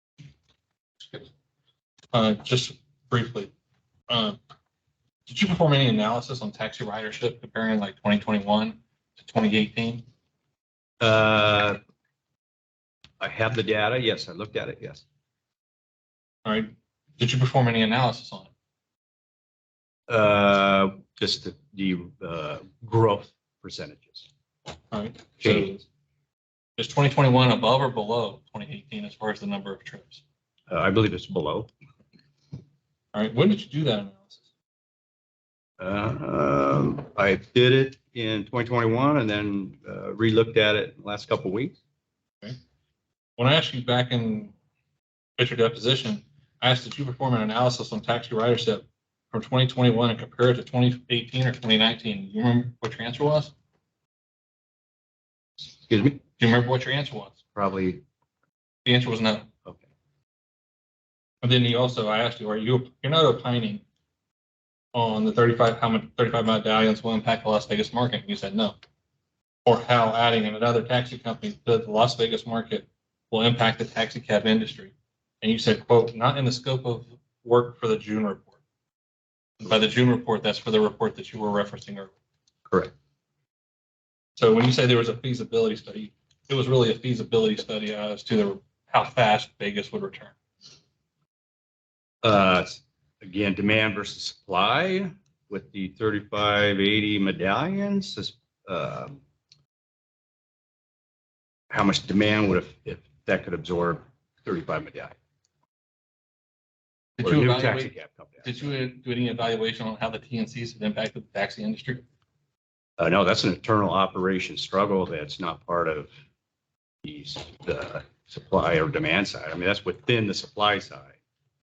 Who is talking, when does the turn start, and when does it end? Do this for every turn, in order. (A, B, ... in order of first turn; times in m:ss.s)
0:02.1-0:03.5 A
0:04.1-0:04.4 A
0:05.3-0:10.0 A
0:11.0-0:11.8 B
0:13.2-0:15.0 B
0:16.4-0:18.5 A
0:20.1-0:24.3 B
0:24.9-0:25.8 A
0:25.4-0:25.7 B
0:26.8-0:30.2 A
0:30.7-0:31.7 B
0:33.1-0:34.4 A
0:35.8-0:41.8 B
0:43.4-0:44.5 A
0:45.4-0:53.5 A
0:55.8-0:56.2 B
0:56.4-0:57.4 A
0:57.6-0:58.0 B
0:58.8-0:59.5 A
1:01.4-1:03.8 A
1:04.9-1:08.8 A
1:09.6-1:18.6 A
1:19.6-1:22.1 A
1:22.7-1:22.9 B
1:24.4-1:30.3 A
1:32.2-1:39.2 B
1:41.7-1:45.1 B
1:47.2-1:52.0 A
1:47.2-1:48.6 B
1:53.0-1:56.1 B
1:57.0-2:01.1 B